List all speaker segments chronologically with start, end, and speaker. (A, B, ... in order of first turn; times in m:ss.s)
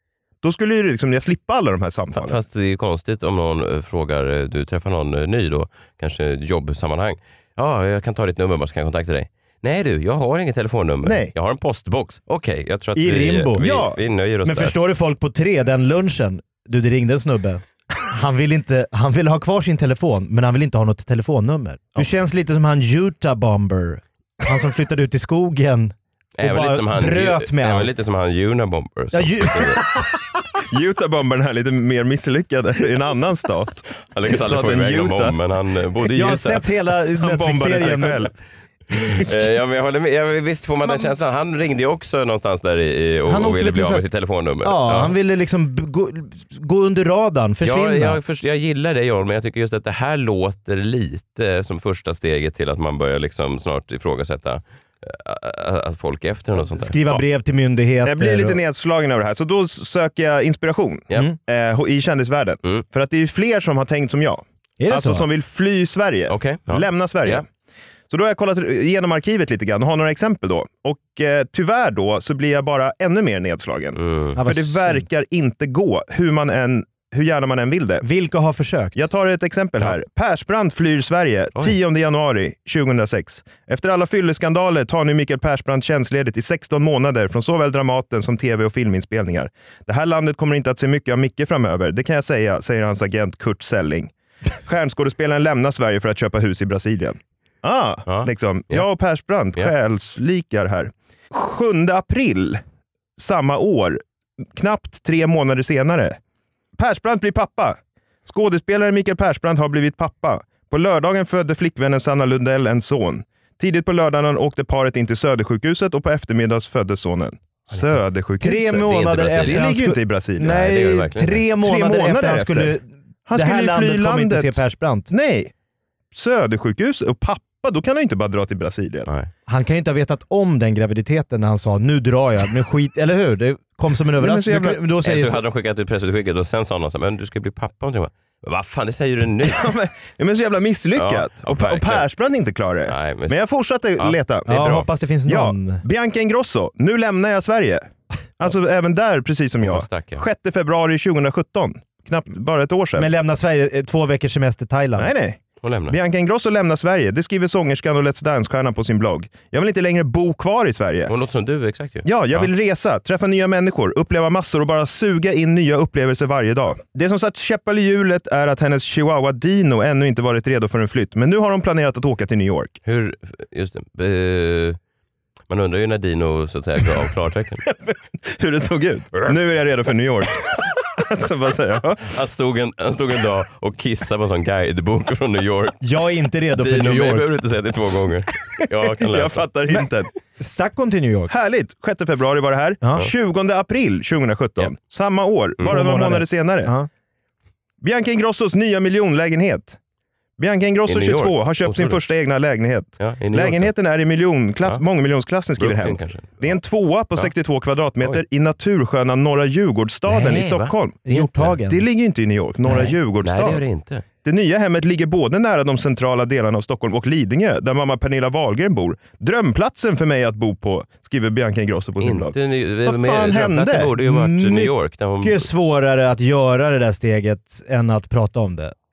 0:00.4-0:02.4 A
0:02.2-0:14.8 B
0:11.0-0:11.3 A
0:13.0-0:13.8 C
0:13.6-0:14.0 A
0:14.4-0:27.9 C
0:26.4-0:29.8 B
0:29.1-0:30.1 C
0:30.7-0:35.4 A
0:34.1-0:36.7 B
0:36.1-0:38.3 C
0:37.2-0:38.3 A
0:39.1-0:45.2 B
0:43.3-0:44.0 C
0:44.6-0:48.2 C
0:47.6-0:57.2 B
0:56.6-0:58.6 C
0:58.0-1:07.4 A
1:04.8-1:05.3 C
1:06.3-1:07.4 B
1:08.1-1:18.1 A
1:14.0-1:14.4 B
1:14.4-1:15.1 C
1:18.0-1:19.0 C
1:19.0-1:42.6 A
1:38.1-1:38.9 B
1:43.2-1:44.0 A
1:44.5-1:46.2 A
1:46.8-2:00.8 A
1:57.7-1:58.0 B
1:58.4-2:05.1 C
1:58.7-1:59.8 B
2:00.4-2:01.4 B
2:01.5-2:02.8 A
2:03.3-2:04.6 A
2:05.1-2:05.5 A
2:06.1-2:09.1 A
2:09.5-2:15.4 C
2:14.2-2:14.8 A
2:15.0-2:19.7 B
2:19.4-2:33.1 A
2:21.0-2:22.1 B
2:22.9-2:23.4 B
2:24.5-2:25.8 C
2:29.6-2:30.2 B
2:33.0-2:35.1 C
2:35.0-2:41.1 A
2:35.6-2:36.0 B
2:41.1-2:42.5 B
2:42.0-2:52.8 A
2:52.8-2:54.8 B
2:55.5-2:57.6 B
2:57.9-3:02.1 A
3:02.0-3:05.8 B
3:05.8-3:07.3 C
3:06.5-3:09.5 B
3:09.0-3:10.1 A
3:10.4-3:11.3 C
3:11.3-3:16.8 A
3:12.8-3:13.1 C
3:15.6-3:16.9 C
3:17.8-3:19.8 A
3:20.4-3:33.7 A
3:20.9-3:22.0 B
3:23.0-3:23.7 B
3:25.6-3:26.6 B
3:30.1-3:30.8 B
3:31.0-3:31.8 C
3:32.7-3:34.0 B
3:34.2-3:43.9 A
3:42.0-3:45.5 B
3:44.0-3:48.8 C